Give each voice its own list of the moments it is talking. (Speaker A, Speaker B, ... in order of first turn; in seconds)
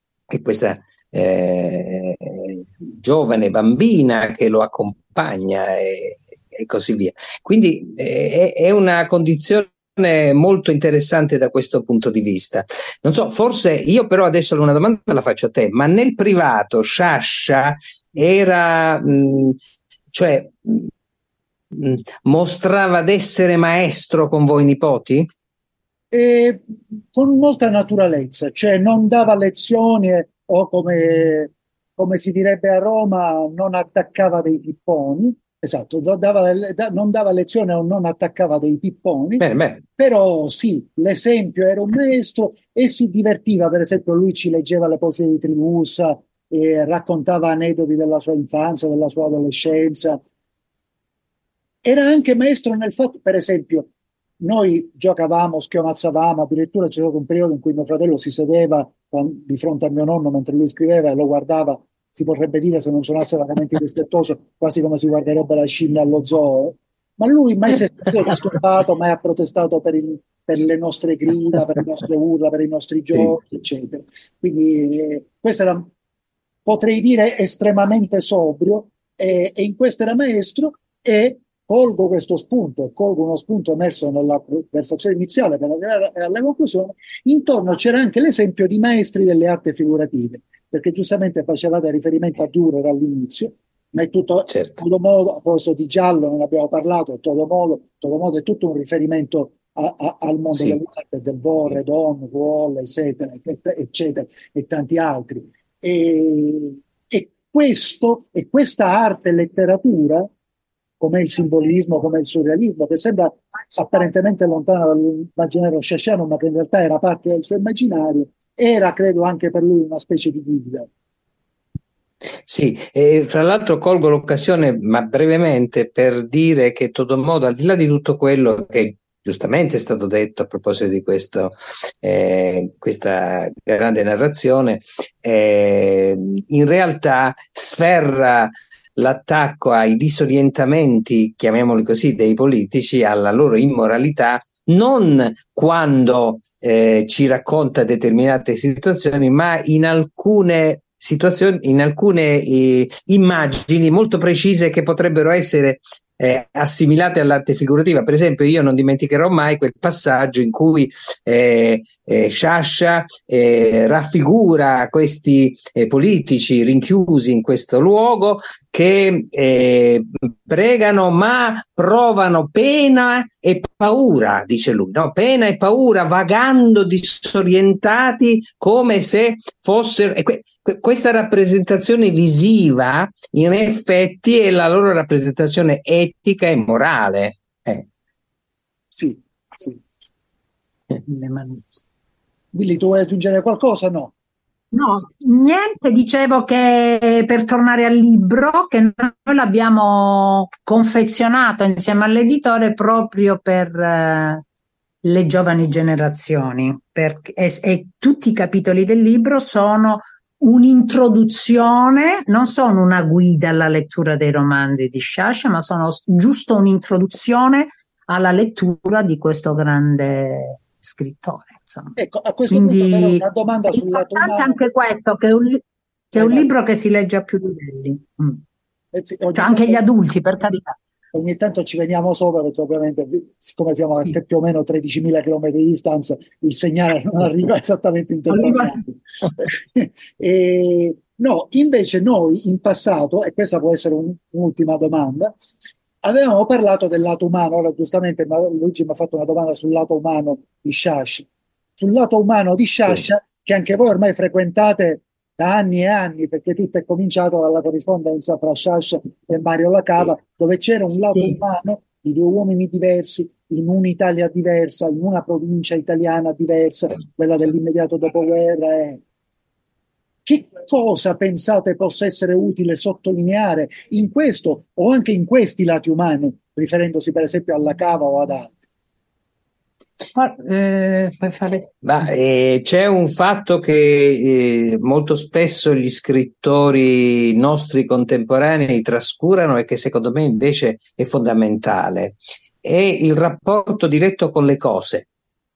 Speaker A: 0.3-19.6, 20.1-20.9, 21.7-25.3, 39.4-39.8, 94.5-94.8, 122.5-187.9, 281.8-295.1
Speaker B: 26.1-39.5, 40.0-50.2, 51.8-53.9, 54.4-75.9, 76.7-110.3, 111.0-120.9, 188.9-189.8, 192.5-194.1, 222.0-224.6, 226.1-226.5, 228.9-229.8, 231.1-245.4, 246.0-269.0, 270.3-278.7
Speaker C: 191.1-191.6, 194.7-204.4, 205.0-222.0, 222.5-228.4, 229.3-230.8, 238.3-238.8, 280.1-281.7